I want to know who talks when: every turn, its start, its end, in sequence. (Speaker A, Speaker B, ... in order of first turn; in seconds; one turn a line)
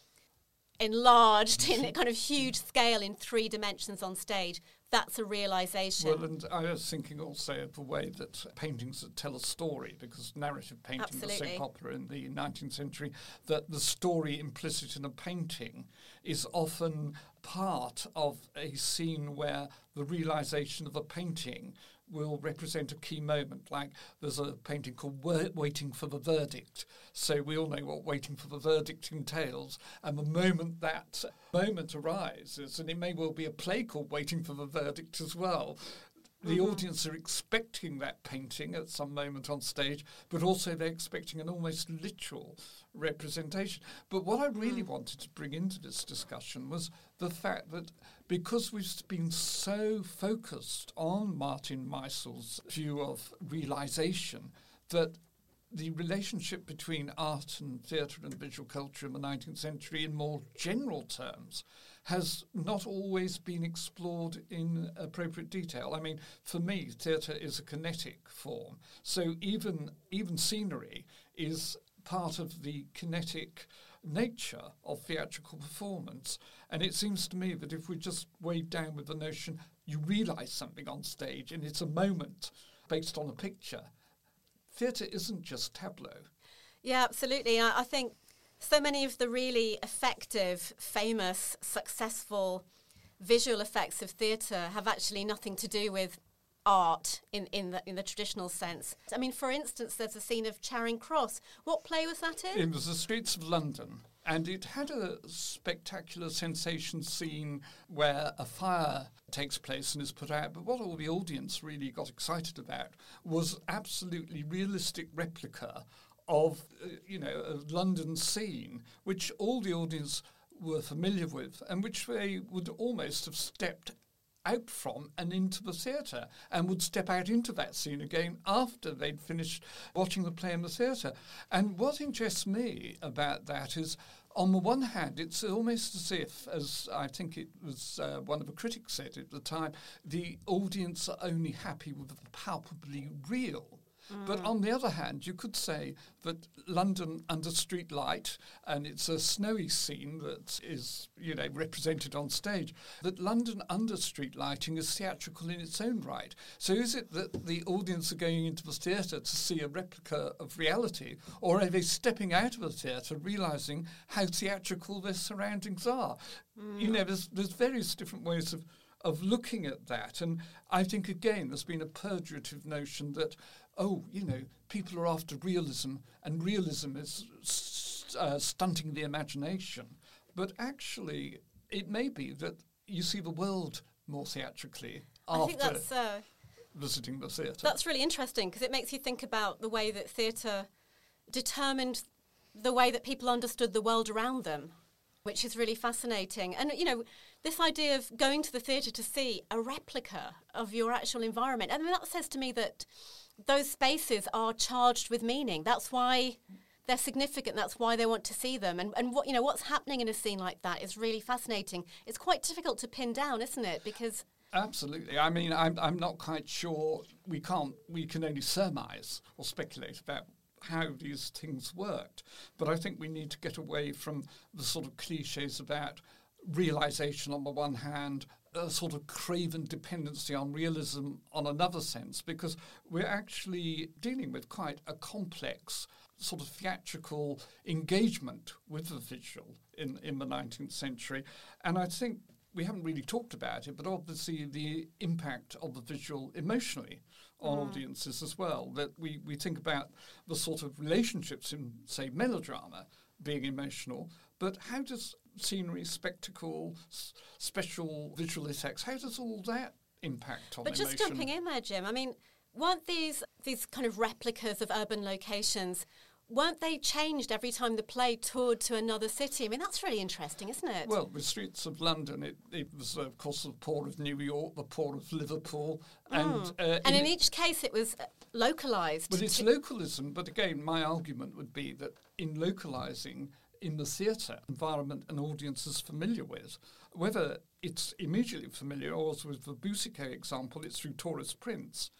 Speaker A: 0.8-6.2
Speaker B: 6.0-55.2
Speaker A: 11.0-11.6
Speaker B: 55.7-83.9
Speaker B: 84.7-86.3
Speaker A: 86.8-92.6
Speaker A: 93.2-102.6
Speaker B: 102.5-185.9
Speaker A: 144.1-144.5
Speaker A: 166.6-166.9
Speaker A: 185.3-186.2
Speaker B: 186.7-187.7
Speaker A: 187.6-190.7
Speaker A: 191.3-194.7
Speaker A: 195.2-214.2
Speaker B: 214.5-261.3
Speaker A: 247.4-247.8
Speaker A: 260.6-270.9
Speaker B: 270.8-277.1
Speaker A: 276.1-279.4
Speaker B: 279.1-291.9